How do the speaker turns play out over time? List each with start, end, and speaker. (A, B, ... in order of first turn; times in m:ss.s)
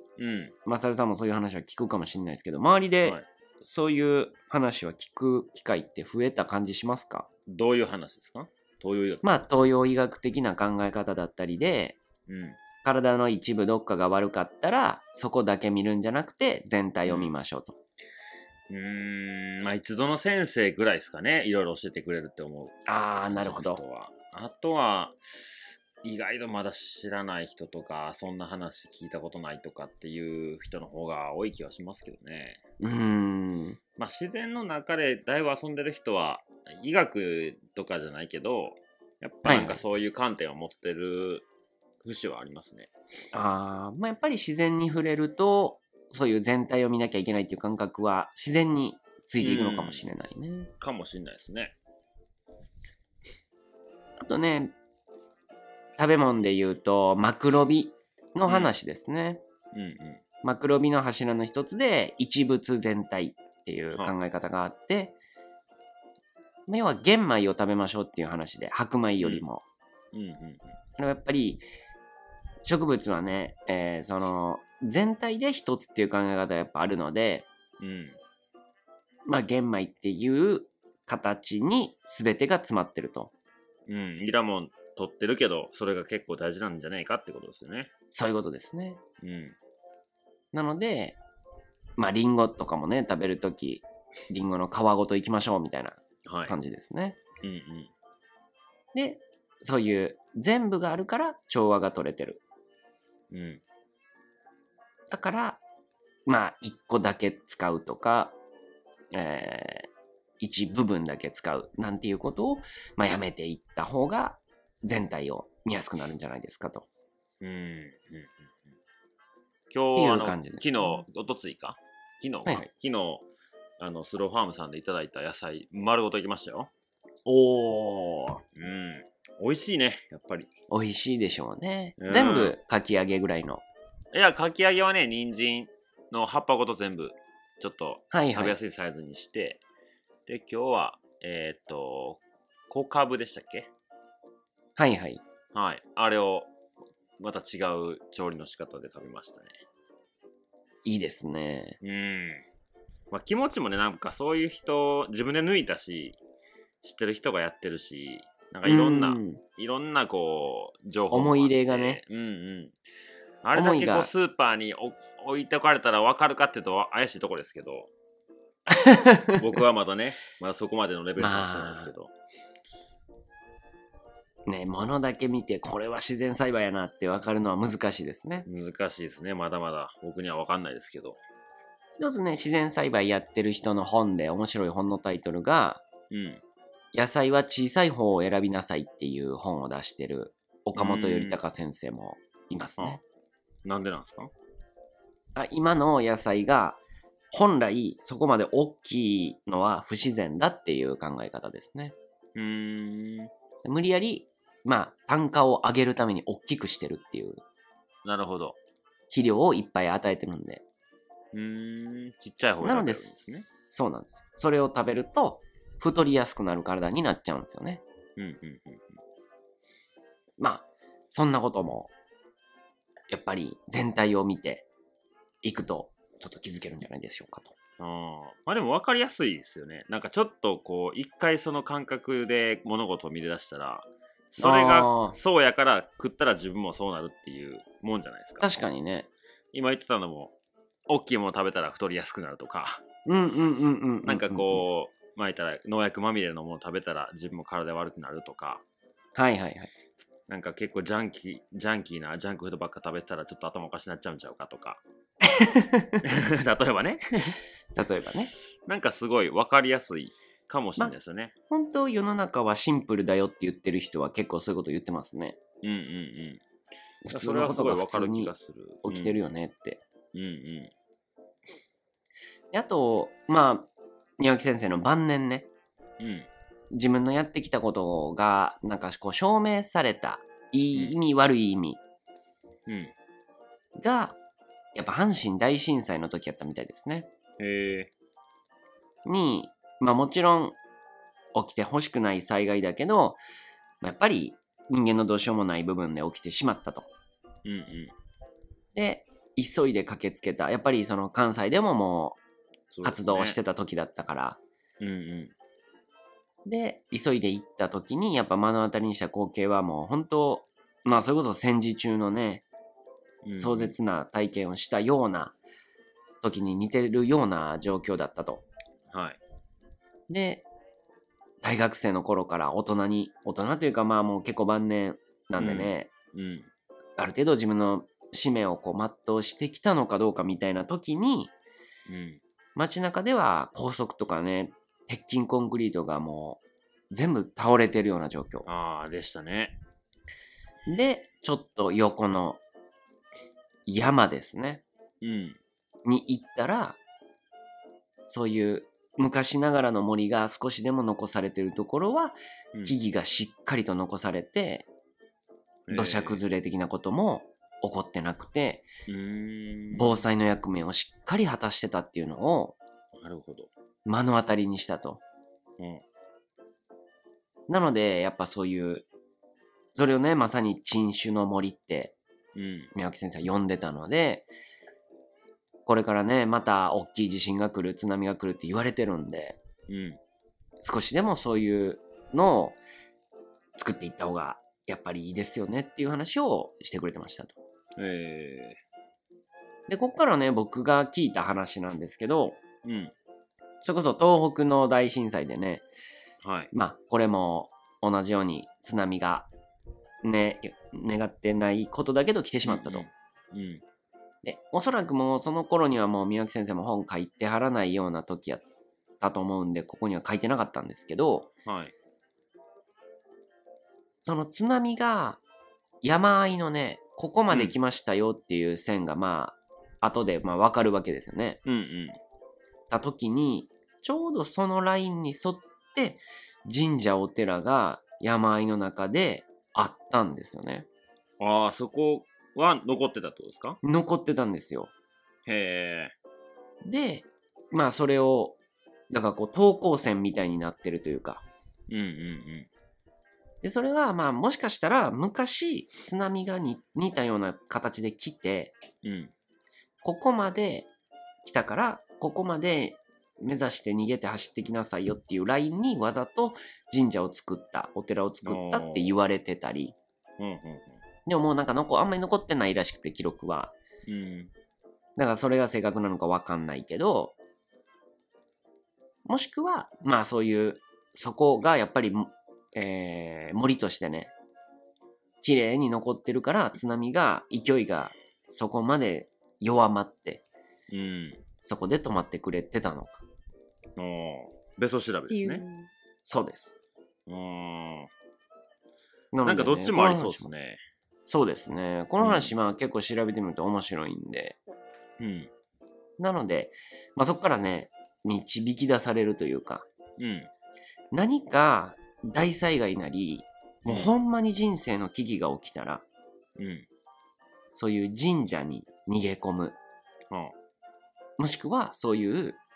0:00.2-0:00.6 A
0:00.7-0:07.3 B
0:07.5-0:09.4 A
0:09.2-0:12.0 B
0:12.3-0:12.6 A
0:12.8-0:17.8 B
0:17.1-0:17.3 A
0:18.7-0:32.6 A
0:22.9-0:23.8 B
0:32.8-0:33.8 B
0:34.0-0:41.5 A
0:39.4-0:39.8 B
0:42.0-0:42.9 A
0:43.3-0:50.7 B
0:49.4-0:50.1 A
0:50.8-0:51.8 A
0:54.2-0:54.7 B
0:56.0-0:59.4 B
0:58.5-0:58.7 A
0:59.7-1:00.2 A
1:00.4-1:05.2 B
1:06.7-1:09.6 B
1:10.1-1:10.8 A
1:11.0-1:11.6 B
1:12.6-1:17.5 B
1:17.8-1:18.2 A
1:19.3-1:23.3 B
1:23.9-1:27.9 A
1:28.1-1:29.0 B
1:29.2-1:29.6 A
1:30.5-1:31.2 B
1:32.0-1:37.2 B
1:36.3-1:36.6 A
1:37.4-1:37.9 A
1:38.9-1:42.4 B
1:43.3-1:43.6 A
1:45.1-1:45.6 B
1:46.3-1:48.4 B
1:49.1-1:49.9 B
1:50.4-1:56.9 B
1:57.4-1:58.5 A
1:59.7-2:03.3 A
2:00.0-2:01.0 B
2:03.8-2:06.7 A
2:07.2-2:08.4 B
2:08.6-2:10.5 A
2:10.7-2:13.6 B
2:12.0-2:12.6 A
2:14.1-2:19.6 A
2:18.1-2:18.6 B
2:20.3-2:23.7 A
2:24.8-2:25.2 B
2:25.5-2:26.5 A
2:27.2-2:29.5 A
2:30.8-2:31.8 B
2:31.8-2:32.5 A
2:33.1-2:36.2 A
2:36.8-2:42.8 A
2:38.6-2:39.4 B
2:41.1-2:42.0 B
2:43.4-2:47.9 A
2:43.6-2:44.1 B
2:48.7-2:49.4 B
2:49.3-2:52.1 A
2:51.2-2:51.9 B
2:54.5-2:58.5 B
2:58.5-3:01.2 A
3:02.0-3:05.8 B
3:06.1-3:06.4 A
3:06.9-3:13.0 B
3:10.8-3:11.4 A
3:13.6-3:14.3 A
3:15.4-3:16.8 B
3:17.3-3:22.0 B
3:22.4-3:23.3 A
3:23.6-3:27.4 B
3:28.0-3:28.6 A
3:29.1-3:30.6 B
3:31.3-3:33.5 A
3:32.6-3:37.8 B
3:38.2-3:39.0 A
3:40.4-3:41.9 B
3:43.1-3:44.7 B
3:45.4-3:47.6 B
3:47.8-3:58.5 A
3:54.4-3:55.2 B
3:58.4-3:59.1 B
3:59.5-4:00.4 A
4:00.9-4:02.8 A
4:03.1-4:04.6 B
4:04.0-4:08.6 A
4:09.2-4:09.7 B
4:10.3-4:14.8 A
4:15.2-4:16.0 B
4:16.0-4:17.4 A
4:17.7-4:18.3 B
4:18.7-4:21.3 A
4:21.5-4:25.4 B
4:25.6-4:26.4 A
4:27.0-4:28.3 B
4:27.1-4:29.1 A
4:28.8-4:29.8 B
4:30.1-4:30.7 A
4:32.5-4:35.5 B
4:36.0-4:36.3 A
4:36.7-4:41.8 B
4:42.7-4:42.9 A
4:43.8-4:44.2 B
4:44.7-4:47.1 B
4:47.4-4:47.9 A
4:49.0-4:50.6 B
4:51.3-4:53.2 B
4:53.8-4:56.9 B
4:57.4-4:57.9 A
4:58.8-5:02.2 B
5:02.7-5:03.4 A
5:02.8-5:04.4 B
5:04.8-5:05.3 A
5:06.4-5:12.4 B
5:13.2-5:13.7 A
5:13.4-5:15.4 B
5:16.2-5:18.4 B
5:18.9-5:19.2 A
5:20.1-5:20.4 B
5:21.4-5:25.9 B
5:25.4-5:26.5 A
5:27.0-5:31.3 B
5:31.9-5:32.2 A
5:32.6-5:38.5 B
5:38.5-5:39.6 A
5:40.7-5:42.4 B
5:43.7-5:44.6 B
5:45.0-5:45.4 A
5:45.8-5:46.8 B
5:48.1-5:54.7 B
5:55.7-5:56.2 A
5:55.7-5:58.7 B
5:58.9-5:59.9 A
5:59.8-6:02.6 B
6:03.0-6:03.5 A
6:03.9-6:05.0 B
6:05.6-6:05.8 A
6:07.5-6:08.9 B
6:09.8-6:12.0 B
6:12.4-6:12.7 A
6:12.8-6:14.3 B
6:15.7-6:19.4 B
6:19.7-6:20.0 A
6:20.6-6:22.6 B
6:23.6-6:27.4 B
6:27.8-6:28.6 A
6:29.7-6:32.4 B
6:32.6-6:32.9 A
6:33.6-6:35.6 B
6:36.2-6:36.5 A
6:36.5-6:39.3 B
6:40.0-6:42.9 B
6:42.4-6:43.6 A
6:44.2-6:48.4 B
6:49.0-6:51.3 B
6:51.5-6:51.7 A
6:54.0-6:55.2 B
6:55.8-7:01.4 B
7:01.4-7:02.0 A
7:02.7-7:10.7 B
7:11.2-7:13.6 A
7:13.6-7:14.7 B
7:15.3-7:16.0 A
7:16.6-7:18.4 B
7:18.9-7:21.2 B
7:21.7-7:22.5 A
7:23.4-7:28.5 B
7:28.8-7:29.1 A
7:29.8-7:30.7 B
7:31.2-7:39.8 B
7:38.2-7:39.0 A
7:40.2-7:40.8 A
7:41.1-7:43.6 B
7:43.9-7:44.3 A
7:45.0-7:47.2 B
7:49.1-7:54.1 B
7:55.2-8:00.2 B
8:00.7-8:01.2 A
8:01.4-8:03.0 B
8:03.8-8:05.4 A
8:05.1-8:06.6 B
8:07.1-8:07.9 A
8:09.1-8:10.3 B
8:09.2-8:10.6 A
8:11.1-8:14.4 B
8:12.0-8:12.3 A
8:15.0-8:15.3 A
8:16.0-8:19.7 B
8:20.0-8:20.3 A
8:20.9-8:25.8 B
8:23.7-8:23.9 A
8:26.4-8:26.7 A
8:27.6-8:29.6 B
8:31.2-8:32.4 B